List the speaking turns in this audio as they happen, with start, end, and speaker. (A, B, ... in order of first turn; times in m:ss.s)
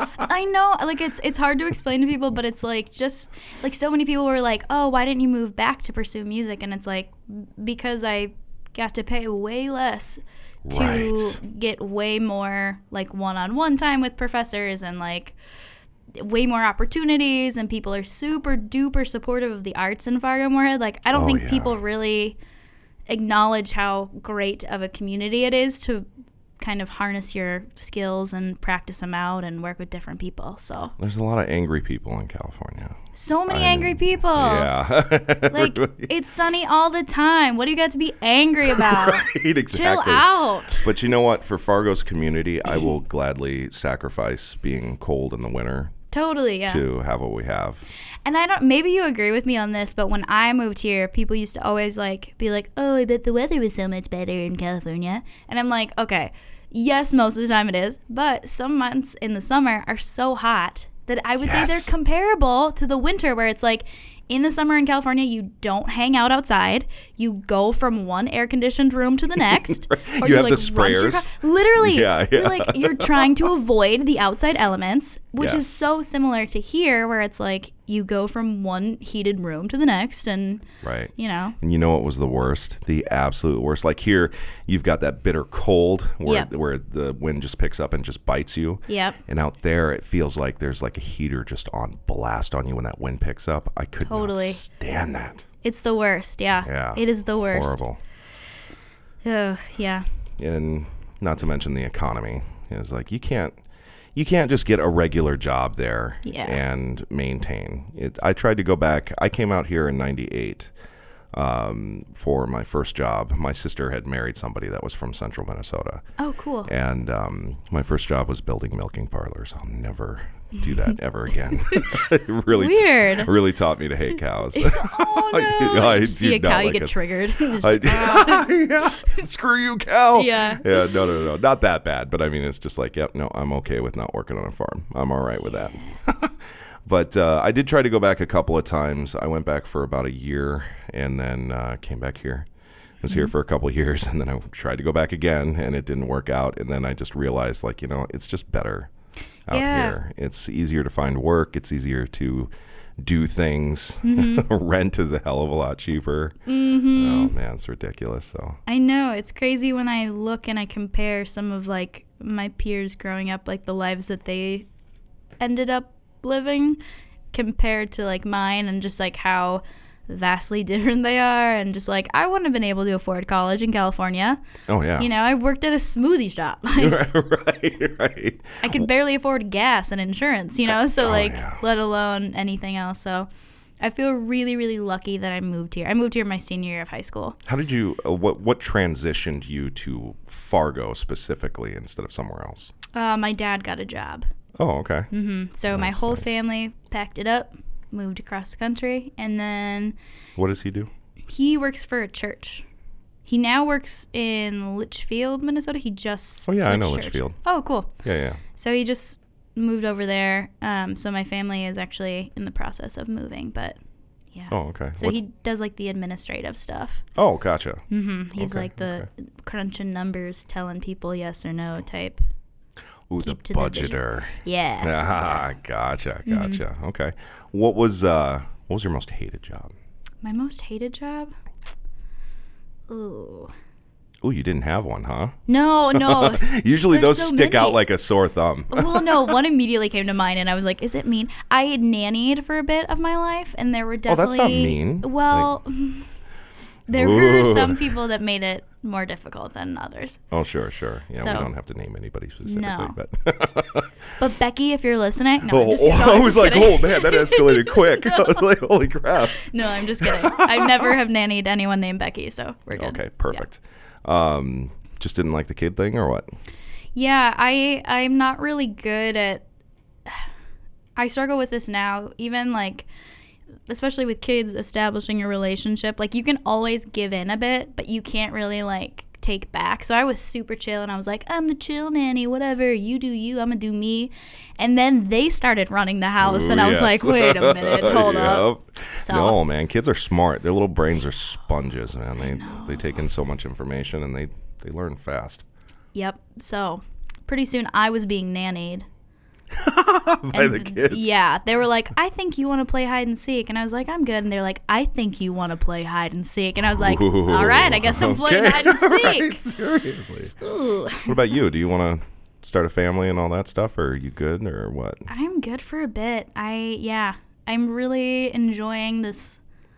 0:00.1-0:15.4 A
0:10.6-0:11.4 B
0:16.1-0:22.4 A
0:21.1-0:21.8 B
0:23.1-0:26.1 A
0:26.6-0:30.9 A
0:31.0-0:36.1 B
0:33.2-0:34.7 A
0:35.5-0:40.9 A
0:38.7-0:45.9 B
0:46.1-0:46.8 A
0:46.7-0:47.9 B
0:48.2-1:20.6 A
1:01.4-1:01.9 B
1:09.5-1:13.3 B
1:20.8-1:35.5 B
1:21.2-1:21.6 A
1:26.2-1:26.5 A
1:28.9-1:29.2 A
1:34.0-1:34.6 A
1:35.6-1:37.8 A
1:36.6-1:38.0 B
1:39.2-1:40.0 A
1:40.4-1:43.6 B
1:44.2-1:50.7 B
1:46.2-1:46.6 A
1:51.3-1:56.0 B
1:56.2-1:56.7 A
1:56.7-2:07.0 B
2:01.7-2:02.0 A
2:02.5-2:03.3 A
2:04.5-2:09.2 A
2:07.5-2:22.5 B
2:10.1-2:11.1 A
2:15.6-2:15.9 A
2:23.0-2:23.3 A
2:23.0-2:28.9 B
2:29.5-2:36.4 B
2:29.5-2:30.0 A
2:34.0-2:34.5 A
2:36.5-2:37.3 A
2:36.9-2:38.6 B
2:38.7-2:44.7 A
2:45.4-2:46.8 A
2:47.3-2:54.4 A
2:54.7-2:55.1 B
2:55.0-2:57.0 A
2:56.8-2:58.9 B
2:58.6-3:03.3 A
3:01.0-3:01.6 B
3:03.8-3:07.4 A
3:07.5-3:12.7 B
3:12.9-3:14.2 A
3:14.6-3:15.1 B
3:15.1-3:20.0 A
3:15.7-3:16.3 B
3:20.4-3:20.9 B
3:21.3-3:22.6 A
3:23.3-3:27.9 A
3:26.5-3:27.4 B
3:28.0-3:28.4 B
3:28.4-3:33.8 A
3:34.3-3:37.0 A
3:34.5-3:35.2 B
3:37.2-3:37.8 B
3:37.9-3:42.2 A
3:38.4-3:39.1 B
3:43.1-3:49.7 B
3:43.2-3:45.0 A
3:46.3-3:46.6 A
3:50.2-3:51.3 A
3:52.9-3:53.5 A
3:54.2-3:55.4 B
3:55.5-3:57.8 A
3:55.9-3:59.0 B
3:58.7-4:06.1 A
4:04.1-4:05.5 B
4:06.9-4:10.2 A
4:06.9-4:07.9 B
4:10.3-4:13.9 B
4:11.2-4:11.5 A
4:12.4-4:13.0 A
4:14.2-4:18.4 A
4:15.5-4:20.9 B
4:19.3-4:23.4 A
4:22.7-4:26.3 B
4:27.0-4:29.4 A
4:31.0-4:32.9 A
4:33.7-4:49.4 A
4:46.2-4:55.4 B
4:52.2-4:53.0 A
4:55.9-4:58.9 A
4:59.5-5:01.0 B
5:00.3-5:09.4 A
5:06.7-5:10.4 B
5:10.4-5:11.3 A
5:11.0-5:15.1 B
5:15.1-5:19.4 A